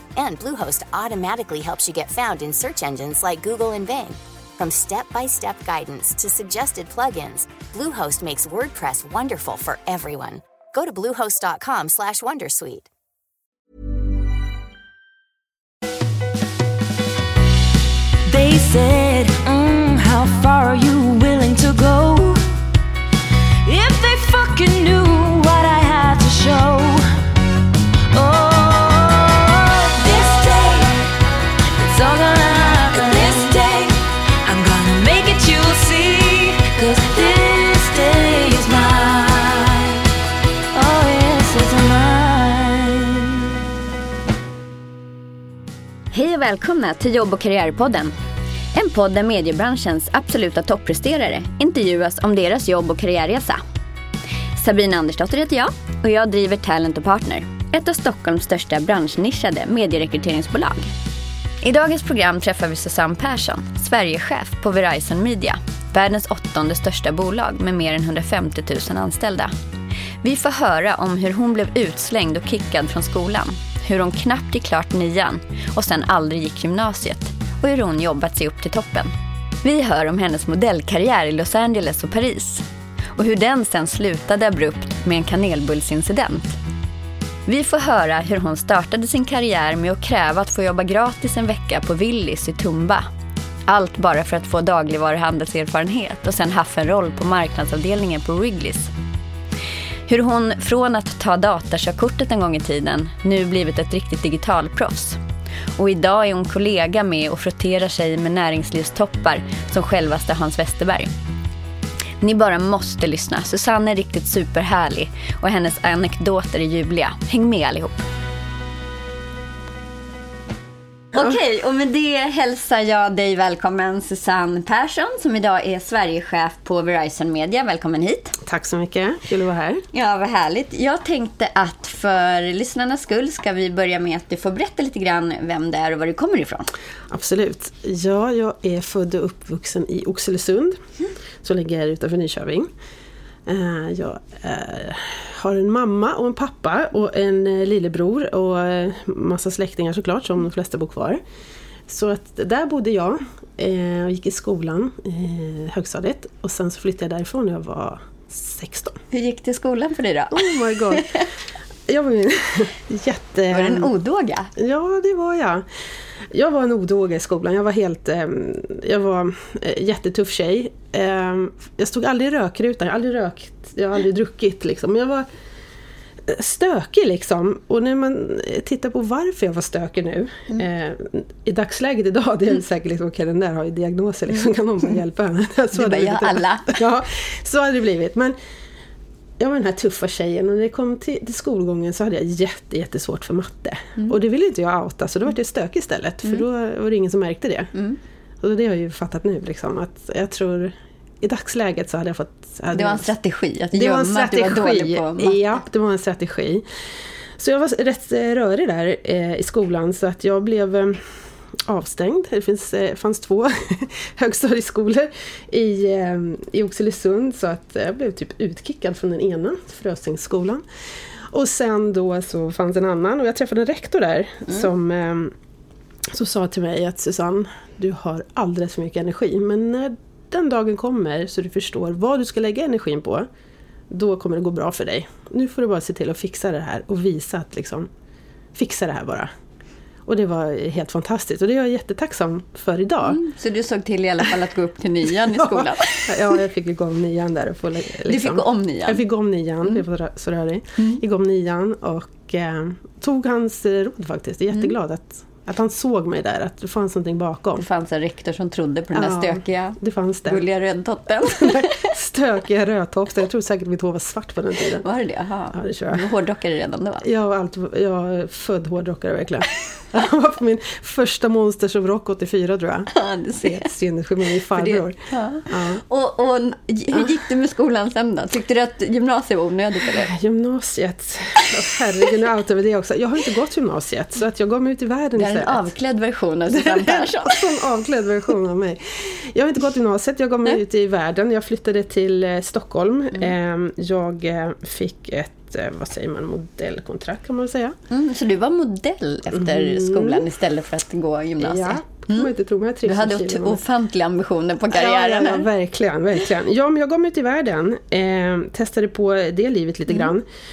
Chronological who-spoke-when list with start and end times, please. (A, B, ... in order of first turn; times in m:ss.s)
0:00.2-0:12.9 A
0:18.2-0:22.4 B
0:23.6-0:27.0 B
0:28.1-0:31.1 B
0:31.7-0:40.0 B
0:40.7-0:43.3 B
0:46.1-0:48.2 C
0:48.7-0:53.6 C
0:54.6-1:00.9 C
1:01.6-1:09.5 C
1:10.2-1:19.1 C
1:19.6-1:26.6 C
1:27.5-1:33.1 C
1:33.7-1:38.9 C
1:40.1-1:45.2 C
1:45.8-1:51.1 C
1:52.2-1:58.0 C
2:01.1-2:08.4 C
2:08.4-2:09.8 D
2:09.9-2:16.7 C
2:17.1-2:20.8 D
2:21.4-2:22.7 D
2:23.5-2:31.2 D
2:31.9-2:39.0 D
2:39.1-2:41.3 C
2:40.3-2:41.1 D
2:41.9-2:43.9 D
2:43.5-2:44.5 C
2:44.6-2:45.7 D
2:46.3-2:55.3 D
2:56.3-3:08.4 D
3:05.7-3:06.8 C
3:09.4-3:17.7 D
3:18.4-3:23.1 D
3:22.7-3:25.6 C
3:23.7-3:26.6 D
3:27.4-3:31.0 D
3:31.7-3:40.6 D
3:41.3-3:45.3 D
3:46.1-3:53.3 D
3:53.9-3:57.9 D
3:58.5-3:59.3 D
4:00.1-4:03.2 D
4:03.0-4:06.4 C
4:05.3-4:17.6 D
4:08.0-4:09.0 C
4:17.6-4:22.0 C
4:18.9-4:20.4 D
4:21.3-4:24.8 D
4:24.8-4:27.1 C
4:25.5-4:26.1 D
4:27.0-4:35.8 D
4:32.9-4:33.7 C
4:34.5-4:40.1 C
4:39.9-4:45.7 D
4:45.2-4:47.6 C
4:46.5-4:57.8 D
4:57.9-5:02.3 C
4:59.3-5:00.3 D
5:01.4-5:03.6 D
5:02.8-5:05.5 C
5:04.7-5:10.3 D